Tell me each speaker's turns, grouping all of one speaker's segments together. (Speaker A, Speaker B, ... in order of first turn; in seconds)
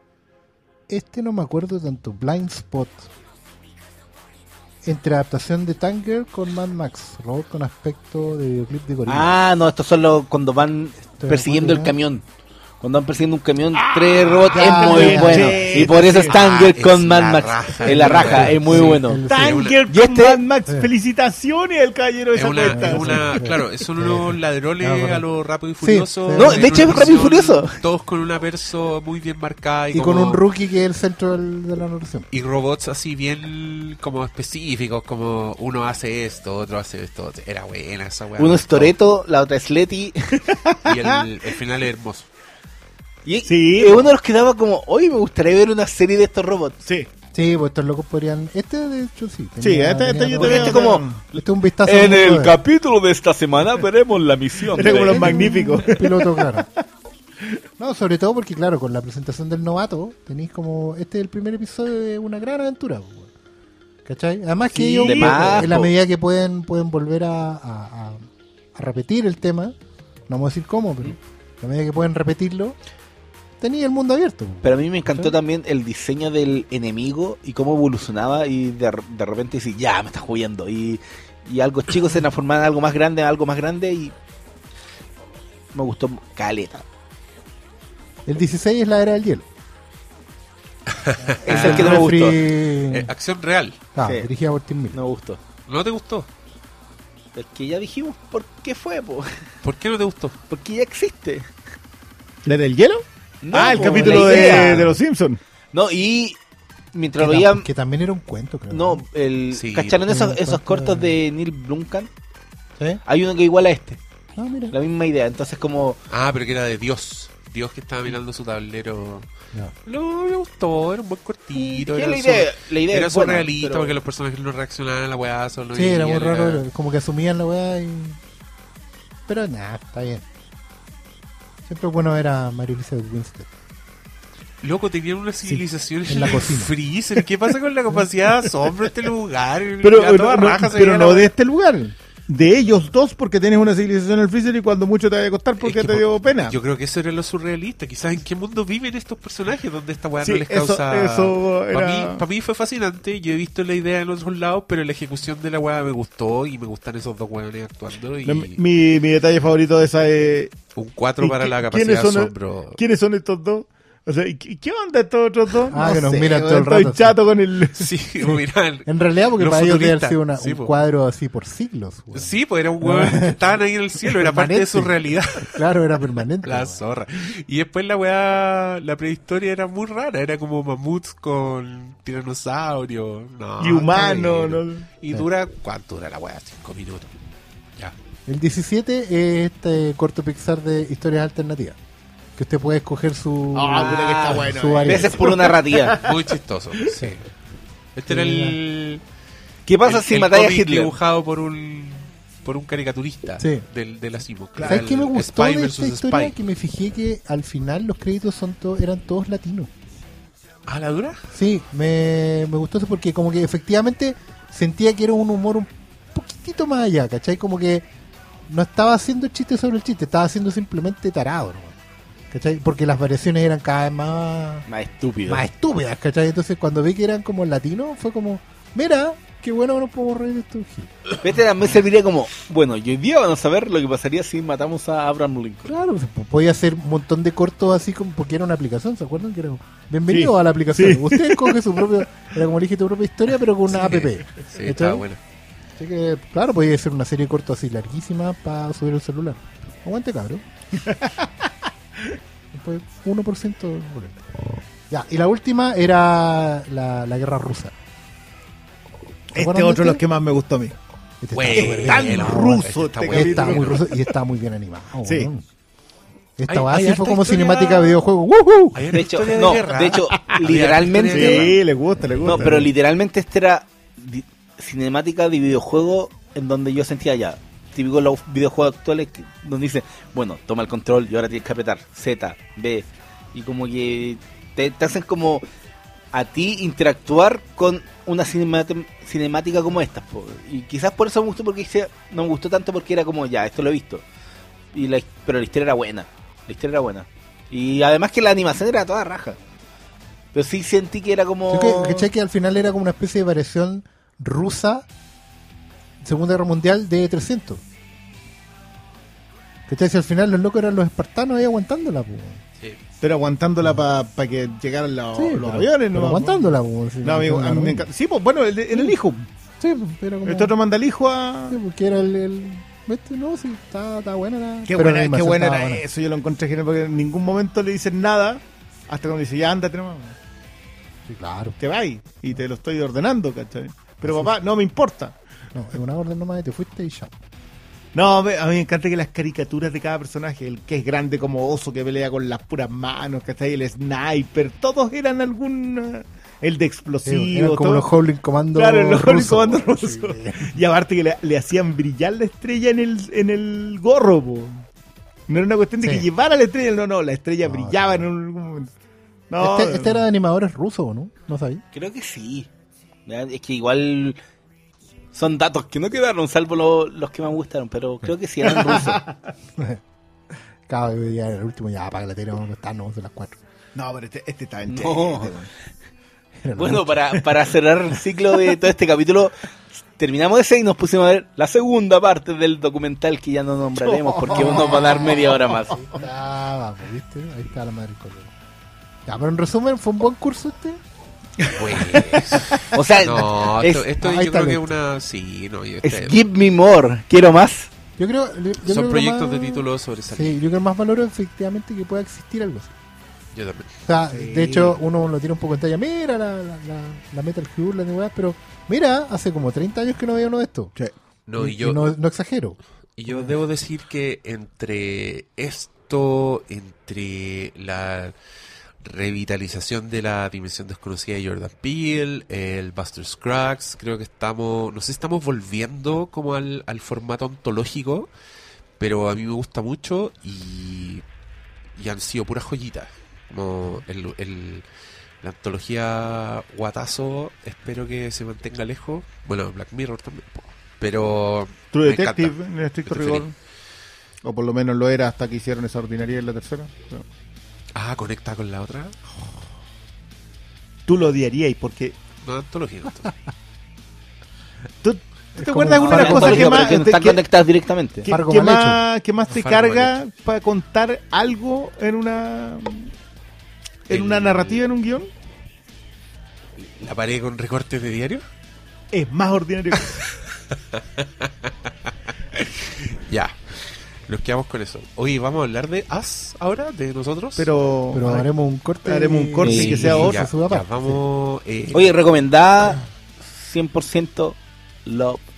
Speaker A: 0.9-3.1, 4.8-9.3, 11.1-11.9, 14.5-15.9, 17.8-19.7, 22.7-25.2, 25.8-27.1, 29.9-32.3, 47.3-52.6, 55.0-56.7, 57.8-63.3, 64.0-69.8, 70.3-72.8, 73.6-75.3, 88.2-89.5, 91.3-93.1, 93.9-95.0, 103.8-104.9, 107.2-109.0, 110.0-111.2, 114.3-114.7, 125.7-128.2, 129.3-130.2, 131.7-133.5, 136.1-136.7, 165.7-167.2, 168.3-173.3, 174.1-174.9, 175.4-176.8, 188.2-191.8, 192.3-195.3, 198.1-198.6, 203.4-203.6, 204.6-209.7, 211.3-217.9, 218.4-221.8, 222.3-224.7, 225.3-230.9, 235.7-245.1, 245.8-250.4, 252.5-254.2, 254.9-257.7, 259.3-260.0, 261.2-265.4, 266.4-268.8, 301.5-304.9, 306.0-307.6, 309.7-312.4, 315.1-317.9, 318.7-318.9, 319.6-320.5, 321.5-325.8, 331.1-331.6, 334.0-334.3, 335.5-337.1, 347.0-350.6, 355.8-356.1, 357.4-358.1, 359.4-361.6, 370.7-373.4, 376.4-377.5, 384.3-388.3, 389.1-390.8, 394.0-394.6, 398.0-402.7, 403.8-410.7, 411.4-412.6, 455.4-456.8, 458.1-458.8, 477.9-481.0
Speaker B: 9.1-12.2, 12.8-19.2, 19.9-20.4, 26.3-27.8, 38.4-40.4, 43.2-46.8, 50.4-55.5, 65.0-65.9, 74.6-84.1, 85.7-86.8, 91.4-92.4, 94.0-94.3, 94.9-95.4, 97.3-99.4, 100.5-101.5, 103.4-104.8, 105.7-106.4, 106.9-107.7, 108.7-112.1, 113.0-114.0, 114.7-116.0, 121.5-124.0, 194.8-195.9, 199.7-200.9, 224.7-225.5, 231.2-235.7, 268.9-271.5, 272.2-285.4, 286.1-294.0, 294.7-299.4, 300.3-302.1, 361.7-362.5, 363.1-364.2, 365.1-369.0, 374.7-375.3, 376.6-379.4, 379.9-385.8, 391.8-393.9, 395.8-397.7, 455.7-458.1, 479.4-479.9, 481.7-485.2
Speaker C: 13.8-16.4, 19.3-23.5, 40.6-41.2, 43.5-44.1, 49.6-51.2, 54.7-56.7, 64.7-65.7, 102.4-105.4, 139.8-146.6, 150.2-152.2, 158.2-160.6, 161.2-167.9, 183.6-184.9, 193.5-196.3, 204.6-204.9, 240.1-242.0, 250.8-251.5, 259.3-260.8, 261.5-264.1, 269.9-270.2, 271.1-272.7, 313.0-319.3, 320.2-321.6, 324.7-330.2, 331.6-335.2, 337.9-347.9, 348.6-354.6, 355.3-358.7, 359.3-360.0, 368.6-369.2, 373.7-375.5, 383.8-385.4, 404.1-404.8, 441.7-443.3, 444.2-447.1, 450.9-451.9, 454.8-457.2, 458.1-462.9, 463.9-465.1, 468.9-470.0, 477.4-478.3, 478.8-480.2
Speaker D: 16.3-19.8, 22.3-30.4, 32.3-38.9, 40.8-42.3, 90.9-93.8, 95.7-96.3, 99.6-100.4, 109.5-110.0, 116.1-119.3, 119.8-126.6, 134.6-141.3, 145.6-158.6, 160.7-162.8, 167.8-170.8, 172.1-175.6, 176.4-187.1, 196.0-197.2, 197.9-199.0, 199.8-206.3, 210.7-211.2, 243.7-245.2, 261.3-263.9, 266.5-268.0, 268.7-271.6, 391.5-396.1, 398.6-400.4, 403.3-403.7, 411.3-411.9, 413.0-418.1, 418.8-428.1, 428.8-431.0, 431.8-434.6, 435.2-443.3, 447.7-449.2, 452.2-453.1, 459.3-459.9, 463.9-464.6, 466.6-468.2, 470.5-471.5, 472.3-477.5, 479.6-482.0